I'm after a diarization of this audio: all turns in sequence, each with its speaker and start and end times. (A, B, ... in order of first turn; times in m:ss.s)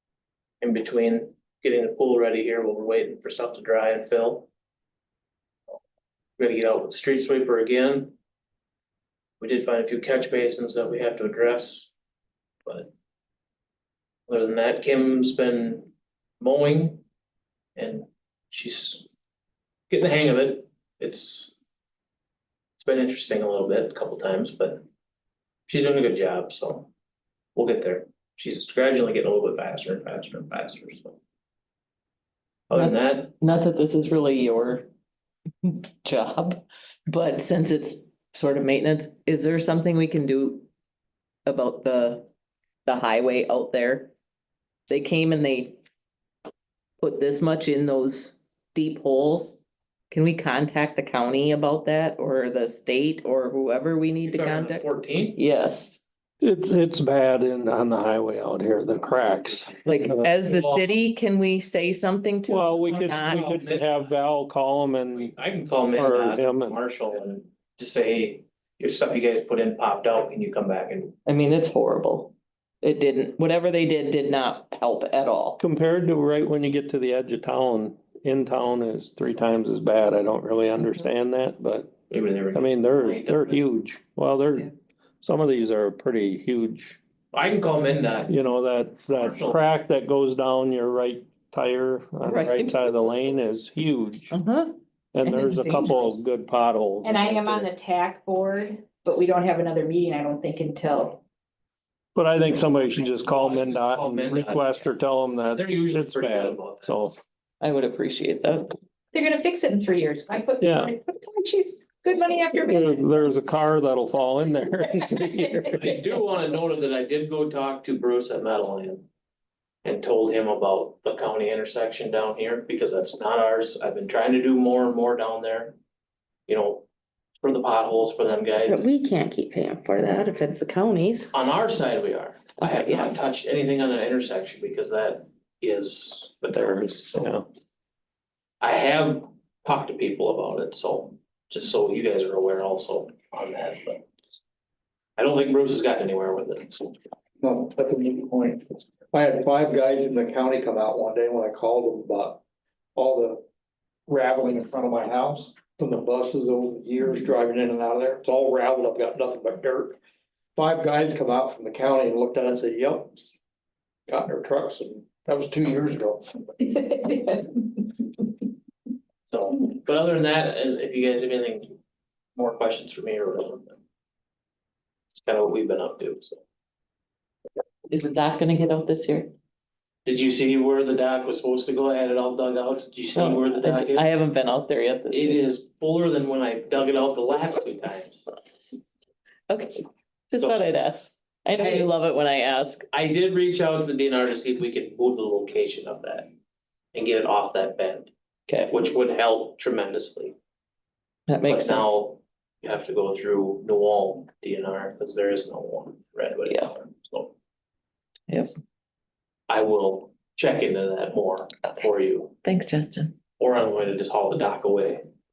0:00.6-0:04.5 A
0:06.4-0:08.2 A
0:09.4-0:11.9 A
0:12.7-0:12.9 A
0:14.3-0:17.0 A
0:17.8-0:19.0 A
0:19.9-0:21.5 A
0:22.8-0:24.8 A
0:25.7-0:26.9 A
0:27.6-0:31.2 A
0:32.7-0:33.3 A
0:32.7-0:34.9 B
0:35.6-0:40.7 B
0:41.5-0:42.3 B
0:42.9-0:44.1 B
0:44.9-0:45.8 B
0:47.0-0:49.6 B
0:50.1-0:56.0 B
0:54.2-0:55.4 A
0:56.4-1:00.3 C
0:59.8-1:03.5 B
1:00.4-1:00.9 A
1:02.5-1:05.4 C
1:02.9-1:04.0 A
1:05.1-1:11.2 A
1:06.0-1:06.8 C
1:11.3-1:15.6 B
1:15.6-1:21.9 C
1:22.1-1:23.6 A
1:22.5-1:24.7 C
1:25.2-1:27.0 C
1:27.3-1:28.3 A
1:28.3-1:34.3 C
1:29.2-1:29.6 A
1:32.2-1:32.8 B
1:34.3-1:36.4 B
1:35.2-1:37.7 C
1:37.0-1:41.2 D
1:42.2-1:47.2 C
1:42.8-1:44.9 A
1:45.5-1:46.9 A
1:47.6-1:48.7 B
1:49.1-1:53.2 D
1:50.6-1:50.9 C
1:52.7-1:56.0 C
1:55.1-1:55.9 D
1:55.8-1:59.1 A
1:59.8-2:05.8 A
2:06.5-2:06.9 A
2:07.4-2:08.8 A
2:08.7-2:11.3 E
2:11.3-2:17.4 A
2:17.2-2:17.4 C
2:18.6-2:24.1 A
2:25.2-2:26.9 A
2:27.4-2:32.4 F
2:33.0-2:33.4 F
2:34.1-2:40.0 F
2:40.6-2:43.3 F
2:44.1-2:46.3 F
2:46.6-2:47.6 D
2:49.3-2:51.8 A
2:52.4-2:53.8 A
2:55.1-2:56.4 A
2:57.9-2:59.3 B
3:00.0-3:04.1 A
3:03.2-3:05.4 B
3:05.1-3:08.3 A
3:09.5-3:12.8 B
3:11.6-3:11.9 A
3:12.9-3:16.3 A
3:16.9-3:18.1 A
3:18.5-3:18.7 B
3:18.7-3:20.4 A
3:21.3-3:21.8 B
3:21.4-3:27.3 A
3:29.5-3:32.3 A
3:32.4-3:33.2 B
3:33.4-3:35.0 A